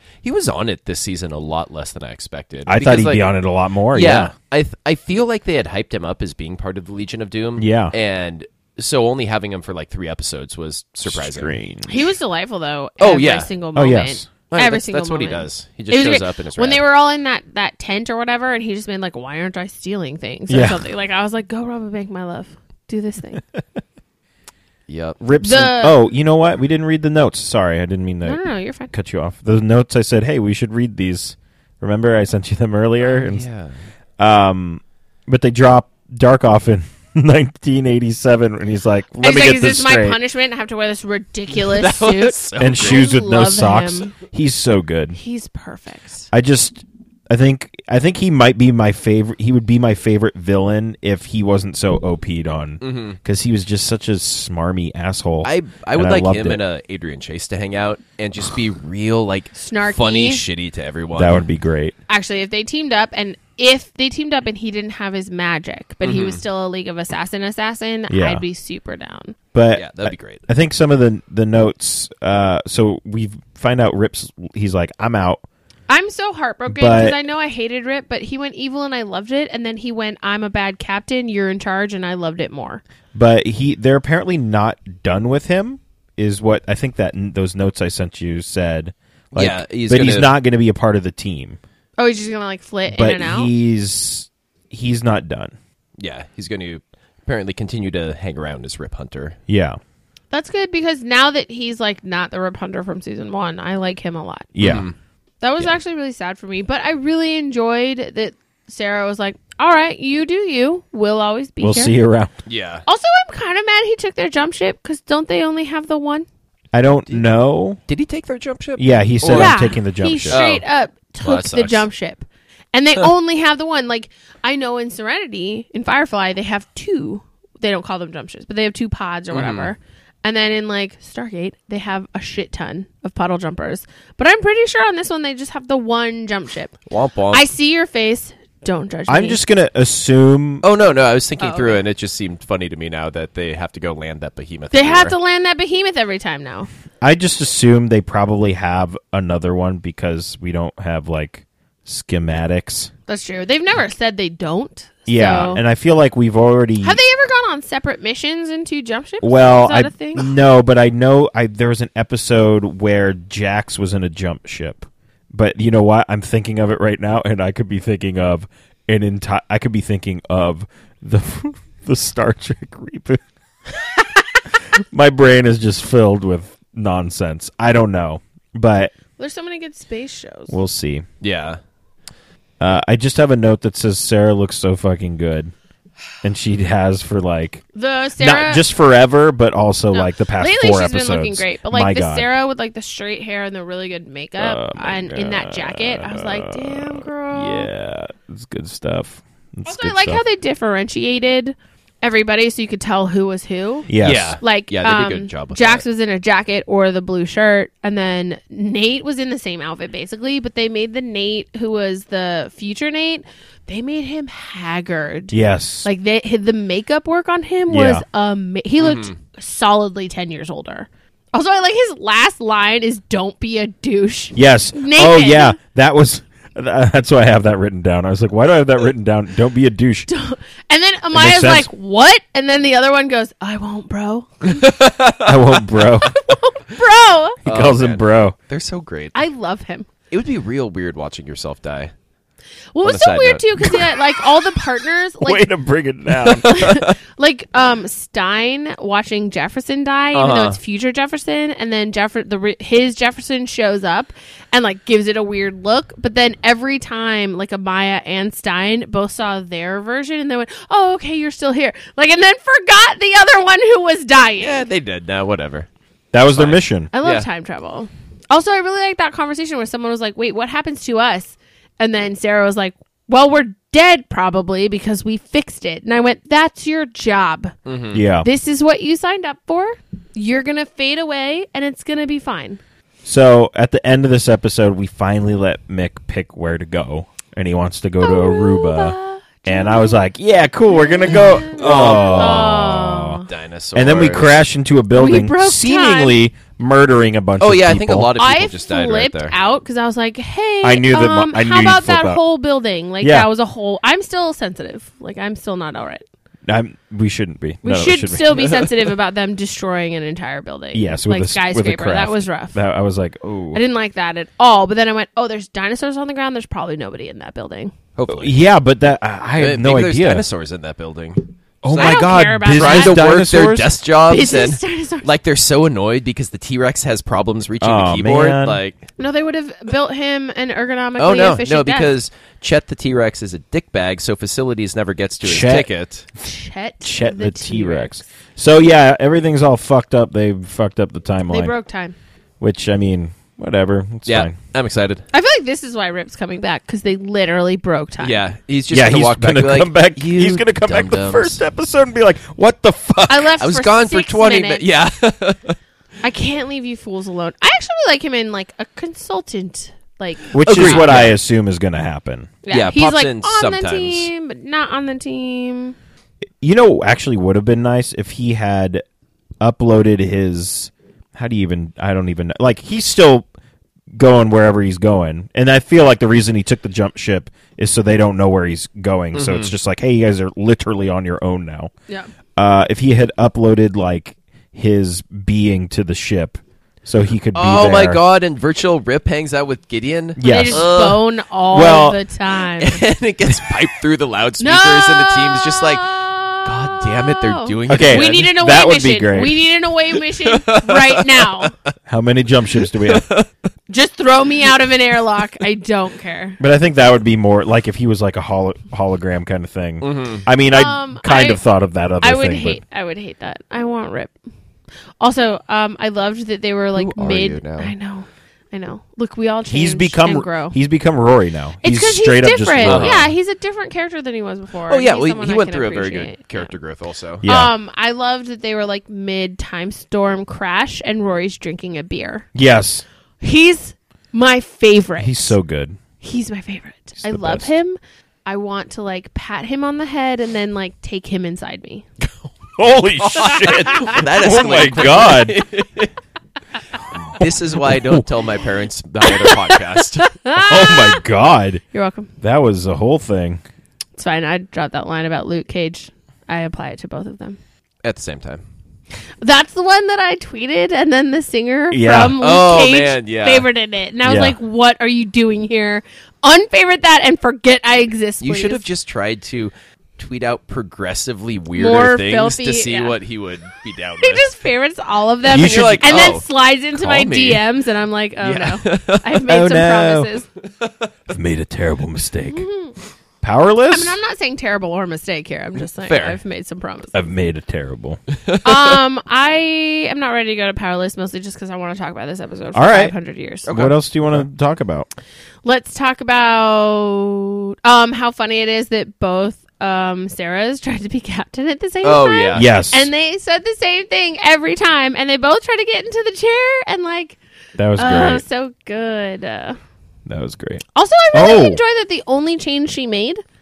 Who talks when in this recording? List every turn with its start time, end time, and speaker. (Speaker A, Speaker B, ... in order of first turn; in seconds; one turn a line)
Speaker A: 0.2-3.4
Speaker B: 2.6-4.3
Speaker A: 3.9-11.5
Speaker B: 7.6-7.9
Speaker B: 11.1-12.0
Speaker C: 11.9-23.4
Speaker A: 13.0-13.5
Speaker B: 13.8-14.3
Speaker A: 14.5-16.8
Speaker B: 20.5-20.8
Speaker A: 24.9-25.2
Speaker B: 25.2-33.5
Speaker C: 25.4-26.0
Speaker C: 28.2-28.9
Speaker A: 33.0-33.7
Speaker B: 34.2-40.2
Speaker C: 39.2-44.1
Speaker A: 41.5-43.0
Speaker B: 42.6-45.2
Speaker C: 45.1-46.3
Speaker B: 46.3-56.6
Speaker A: 52.8-53.2
Speaker A: 55.4-61.4
Speaker C: 59.5-60.4
Speaker B: 61.1-62.0
Speaker C: 62.1-69.4
Speaker A: 66.0-66.4
Speaker B: 68.1-68.4
Speaker B: 69.5-75.4
Speaker A: 69.7-70.4
Speaker C: 75.9-82.8
Speaker B: 76.7-77.2
Speaker B: 83.1-91.6
Speaker A: 89.3-90.3
Speaker C: 92.0-93.5
Speaker B: 92.9-95.5
Speaker A: 96.0-99.4
Speaker B: 99.5-99.8
Speaker C: 100.3-104.5
Speaker B: 104.5-104.9
Speaker A: 104.6-104.9
Speaker C: 105.4-112.0
Speaker B: 111.6-112.3
Speaker A: 112.5-112.8
Speaker C: 112.9-116.2
Speaker B: 116.7-117.8
Speaker A: 117.9-119.6
Speaker B: 118.8-120.4
Speaker C: 119.3-136.8
Speaker A: 120.3-120.6
Speaker A: 121.2-121.9
Speaker A: 129.3-129.7
Speaker A: 136.9-137.4
Speaker C: 137.3-139.4
Speaker B: 139.1-140.6
Speaker A: 140.6-145.1
Speaker C: 141.4-141.8
Speaker C: 144.7-146.7
Speaker B: 147.0-152.9
Speaker C: 153.1-155.6
Speaker B: 155.1-157.0
Speaker C: 156.8-160.3
Speaker B: 159.2-173.2
Speaker B: 174.7-178.9
Speaker C: 179.2-180.6
Speaker B: 180.5-181.1
Speaker A: 181.2-181.6
Speaker B: 182.6-185.5
Speaker B: 186.2-187.6
Speaker C: 187.8-188.6
Speaker B: 188.2-192.3
Speaker C: 189.9-197.7
Speaker B: 194.4-200.2
Speaker C: 199.7-225.6
Speaker B: 203.9-204.4
Speaker A: 204.0-205.8
Speaker B: 215.3-215.9
Speaker B: 217.7-218.0
Speaker A: 218.8-219.1
Speaker B: 224.3-230.1
Speaker C: 230.1-234.6
Speaker B: 231.1-231.7
Speaker A: 234.4-235.6
Speaker B: 235.2-236.2
Speaker C: 236.0-237.4
Speaker B: 237.4-238.3
Speaker A: 237.5-239.2
Speaker C: 239.1-239.9
Speaker A: 240.1-241.9
Speaker C: 242.8-245.5
Speaker A: 242.8-243.8
Speaker B: 245.2-246.7
Speaker A: 246.2-246.9
Speaker C: 246.4-264.6
Speaker A: 250.1-250.6
Speaker A: 264.4-265.7
Speaker B: 266.1-266.9
Speaker A: 266.3-267.3
Speaker C: 266.9-277.5
Speaker A: 277.6-278.0
Speaker B: 277.9-278.3
Speaker C: 278.2-282.6
Speaker B: 283.1-293.2
Speaker C: 288.0-290.0
Speaker C: 290.7-293.3
Speaker A: 291.4-292.5
Speaker A: 293.3-294.4
Speaker B: 293.8-298.1
Speaker C: 294.9-296.1
Speaker A: 297.4-299.4
Speaker C: 298.2-306.0
Speaker B: 300.6-302.2
Speaker B: 303.0-303.3
Speaker B: 306.4-308.5
Speaker C: 307.6-312.6
Speaker B: 310.7-313.6
Speaker C: 313.5-317.7
Speaker A: 317.9-318.4
Speaker B: 318.1-320.3
Speaker A: 319.4-328.9
Speaker B: 321.6-323.7
Speaker C: 321.7-323.2
Speaker C: 324.1-325.1
Speaker B: 327.6-328.6
Speaker C: 329.0-331.9
Speaker A: 331.0-336.1
Speaker B: 335.2-335.7
Speaker C: 336.2-338.1
Speaker B: 336.8-341.6
Speaker C: 341.3-341.9
Speaker B: 342.4-344.4
Speaker A: 344.1-345.0
Speaker C: 345.1-348.2
Speaker A: 348.0-351.4
Speaker B: 348.7-353.4
Speaker C: 353.1-354.6
Speaker A: 353.4-355.6
Speaker C: 356.0-361.1
Speaker A: 360.3-361.2
Speaker B: 360.3-362.3
Speaker C: 362.4-365.8
Speaker A: 362.5-364.1
Speaker B: 366.4-368.8
Speaker B: 369.4-373.3
Speaker B: 373.9-381.7
Speaker A: 379.1-379.5
Speaker B: 382.4-388.0
Speaker A: 387.3-391.0
Speaker B: 390.2-390.7
Speaker C: 390.2-392.8
Speaker B: 391.5-392.0
Speaker A: 392.6-398.4
Speaker C: 394.4-401.5
Speaker B: 397.7-399.4
Speaker A: 400.0-401.6
Speaker B: 401.9-403.1
Speaker A: 402.6-403.3
Speaker C: 403.7-406.4
Speaker B: 406.4-412.6
Speaker A: 409.8-410.2
Speaker C: 410.5-411.4
Speaker C: 412.0-414.1
Speaker C: 415.0-420.6
Speaker A: 416.8-417.7
Speaker B: 419.4-423.0
Speaker C: 421.6-426.5
Speaker A: 422.6-423.1
Speaker A: 424.7-427.2
Speaker B: 427.2-427.5
Speaker C: 427.2-432.3
Speaker B: 432.4-432.9
Speaker C: 433.2-435.4
Speaker B: 435.0-435.8
Speaker C: 436.0-441.9
Speaker B: 437.0-437.5
Speaker B: 442.6-445.4
Speaker A: 443.0-445.9
Speaker C: 443.5-443.9
Speaker A: 446.9-450.2
Speaker B: 447.7-448.0
Speaker C: 449.1-451.0
Speaker B: 450.4-451.6
Speaker C: 451.7-452.1
Speaker B: 452.2-453.4
Speaker C: 454.0-457.4
Speaker A: 457.8-458.4
Speaker C: 459.2-468.6
Speaker B: 461.7-462.2
Speaker A: 462.2-463.5
Speaker B: 464.0-464.4
Speaker A: 468.2-474.3
Speaker C: 471.6-473.0
Speaker C: 474.0-480.3
Speaker B: 475.3-476.1
Speaker A: 475.3-477.4
Speaker A: 478.2-479.2
Speaker B: 479.3-480.1
Speaker B: 481.1-482.4
Speaker C: 482.3-482.8
Speaker B: 483.2-484.0
Speaker C: 483.7-486.9
Speaker A: 485.8-486.2
Speaker B: 486.9-488.0
Speaker A: 488.1-488.8
Speaker C: 488.4-493.5
Speaker B: 492.5-492.9
Speaker A: 493.5-494.2
Speaker B: 493.5-494.9
Speaker C: 495.4-507.2
Speaker A: 501.8-502.4
Speaker B: 502.3-502.9
Speaker B: 507.6-508.2
Speaker C: 507.8-509.6
Speaker B: 510.1-511.6
Speaker C: 510.8-513.2